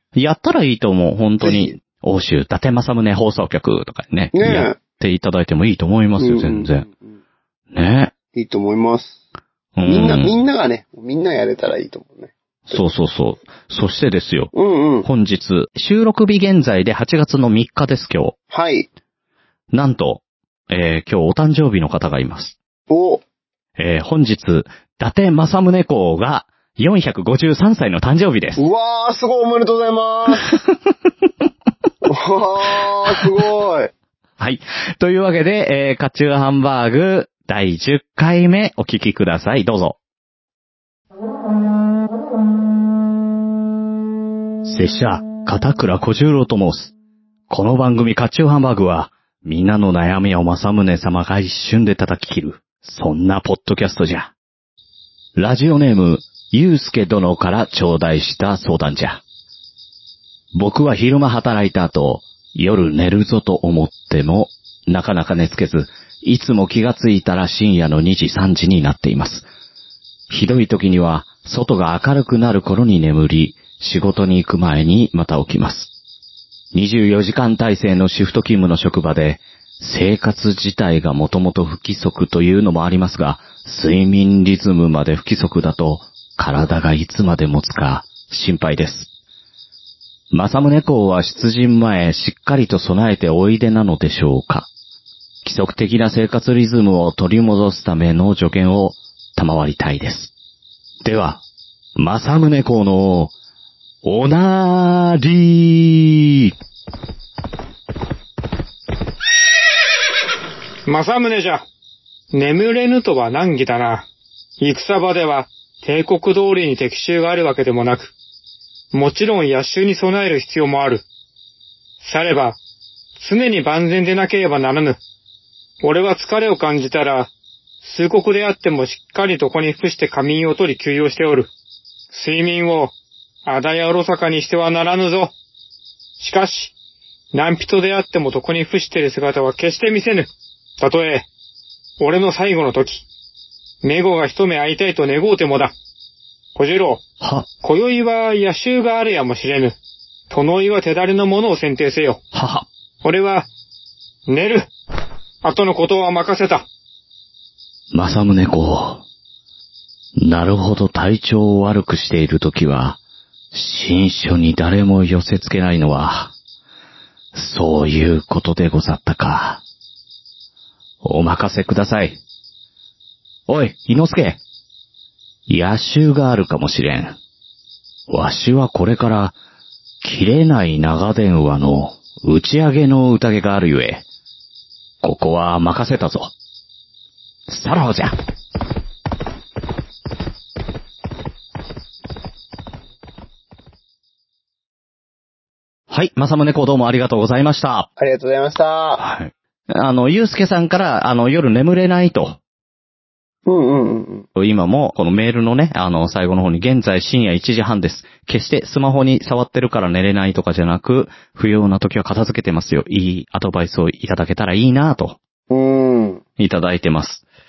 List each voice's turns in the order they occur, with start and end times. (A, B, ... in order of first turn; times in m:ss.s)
0:00.1-0:06.9 A
0:01.4-0:01.8 B
0:04.3-0:04.8 B
0:06.2-0:07.2 B
0:07.7-0:08.1 A
0:08.3-0:09.2 B
0:09.8-0:10.3 A
0:09.8-0:12.8 B
0:12.7-0:18.4 A
0:14.5-0:15.1 B
0:18.5-0:18.9 B
0:19.7-0:22.6 A
0:22.9-0:23.2 B
0:23.8-0:28.6 A
0:28.6-0:30.5 B
0:32.0-0:33.9 B
0:34.4-0:40.0 A
0:44.6-0:46.9 A
0:47.5-0:54.3 A
0:55.4-0:59.2 A
1:00.5-1:09.5 A
1:10.3-1:15.9 A
1:16.7-1:29.1 A
1:30.3-1:34.7 A
1:35.4-1:40.3 A
1:41.0-1:41.4 A
1:42.0-1:43.3 A
1:44.0-1:46.5 A
1:50.8-1:51.6 C
1:52.3-1:54.1 C
1:54.6-1:58.1 C
1:58.9-2:01.0 C
2:02.0-2:02.6 C
2:03.2-2:05.0 C
2:05.8-2:07.3 C
2:07.8-2:11.5 C
2:12.1-2:12.9 C
2:13.4-2:15.3 C
2:16.2-2:16.7 C
2:17.3-2:21.3 C
2:22.0-2:23.0 C
2:23.8-2:25.7 C
2:26.6-2:27.0 C
2:27.2-2:27.5 A
2:27.6-2:29.8 C
2:30.3-2:32.2 C
2:32.3-2:32.7 A
2:33.0-2:33.5 C
2:34.3-2:34.7 C
2:35.4-2:36.6 C
2:37.9-2:39.0 A
2:40.2-2:43.0 A
2:43.5-2:46.3 A
2:47.3-2:49.6 A
2:51.0-2:52.2 A
2:53.5-2:54.4 A
2:55.5-2:57.2 A
2:58.1-2:59.4 A
3:00.0-3:04.0 A
3:05.0-3:06.3 A
3:07.5-3:08.1 A
3:15.9-3:17.9 A
3:18.0-3:19.0 B
3:19.0-3:22.4 A
3:23.4-3:24.3 B
3:24.3-3:35.2 A
3:35.5-3:36.2 B
3:36.4-3:37.2 A